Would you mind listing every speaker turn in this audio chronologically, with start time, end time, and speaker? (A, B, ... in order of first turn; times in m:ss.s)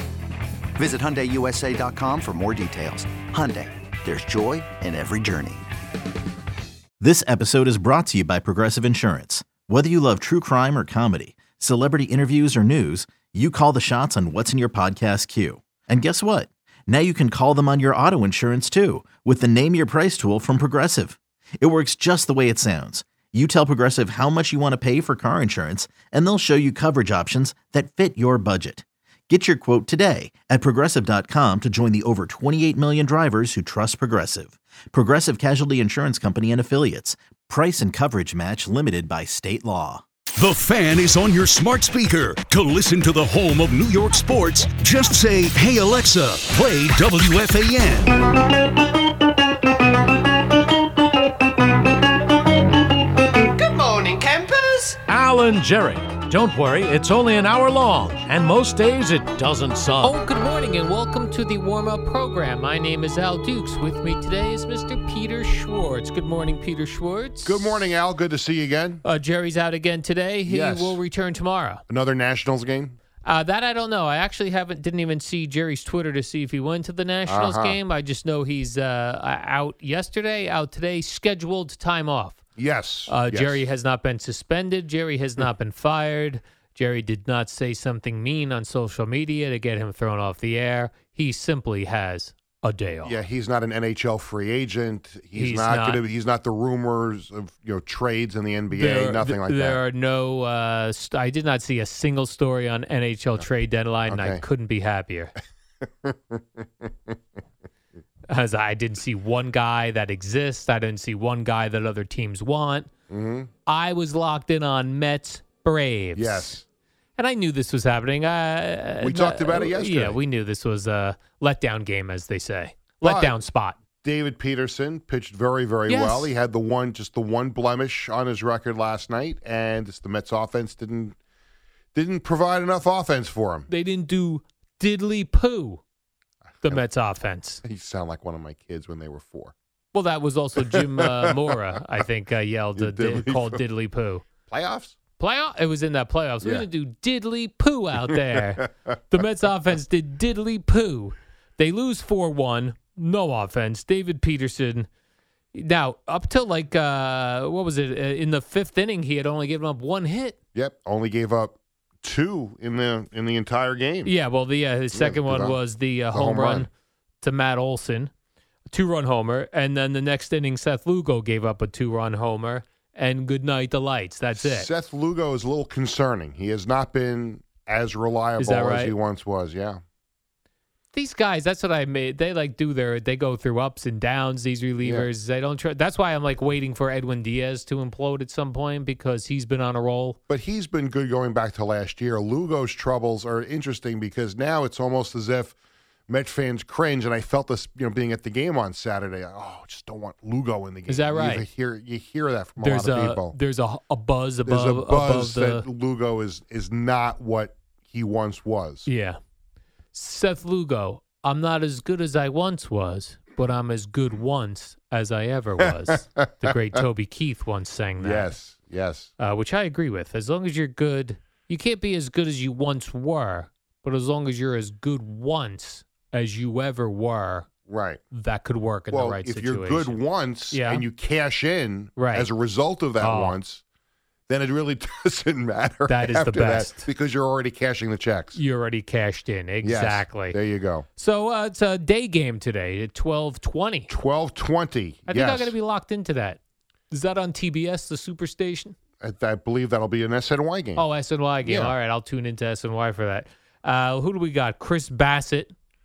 0:00.8-0:05.7 A
0:07.0-0:40.0 B
0:40.4-0:48.2 C
0:53.7-1:00.1 D
1:00.0-1:07.9 E
1:07.4-1:09.0 F
1:09.0-1:11.8 E
1:10.4-1:11.0 F
1:11.9-1:13.0 F
1:13.2-1:22.4 E
1:17.3-1:17.8 F
1:22.6-1:23.7 F
1:23.1-1:33.2 E
1:33.0-1:39.8 F
1:35.4-1:36.0 E
1:38.7-1:45.3 E
1:44.1-1:44.4 F
1:46.0-1:46.9 F
1:48.3-1:52.9 E
1:53.1-1:53.5 F
1:53.7-1:56.6 E
1:56.2-1:56.6 F
1:57.2-2:03.8 E
1:59.0-2:00.2 F
2:03.0-2:03.4 F
2:04.0-2:11.2 F
2:05.9-2:06.3 E
2:11.9-2:13.7 F
2:13.7-2:15.8 E
2:16.6-2:17.6 E
2:17.6-2:19.5 F
2:19.9-2:24.2 E
2:21.0-2:21.3 F
2:22.8-2:23.6 F
2:24.5-2:25.0 F
2:25.2-2:34.9 E
2:26.4-2:26.7 F
2:35.5-2:40.4 E
2:40.6-2:44.2 F
2:44.0-2:46.7 E
2:44.9-2:46.7 F
2:47.2-2:48.1 E
2:48.7-2:54.7 E
2:54.3-2:59.8 F
2:58.4-2:59.0 E
3:00.9-3:10.2 E
3:04.8-3:05.1 F
3:10.3-3:15.6 F
3:16.1-3:23.4 F
3:20.9-3:21.5 E
3:22.6-3:25.7 E
3:24.4-3:28.9 F
3:28.9-3:29.2 E
3:29.9-3:38.3 E
3:38.0-3:39.1 F
3:39.2-3:47.5 E
3:47.7-3:48.0 F
3:48.1-3:50.9 E
3:48.9-3:53.6 F
3:52.0-3:52.3 E
3:53.0-3:53.4 E
3:54.3-3:58.4 F
3:55.9-3:56.9 E
3:58.3-4:00.4 E
3:59.6-4:00.9 F
4:01.0-4:03.9 E
4:03.9-4:05.6 F
4:05.1-4:06.4 E
4:06.9-4:08.8 E
4:09.0-4:11.8 F
4:10.8-4:15.5 E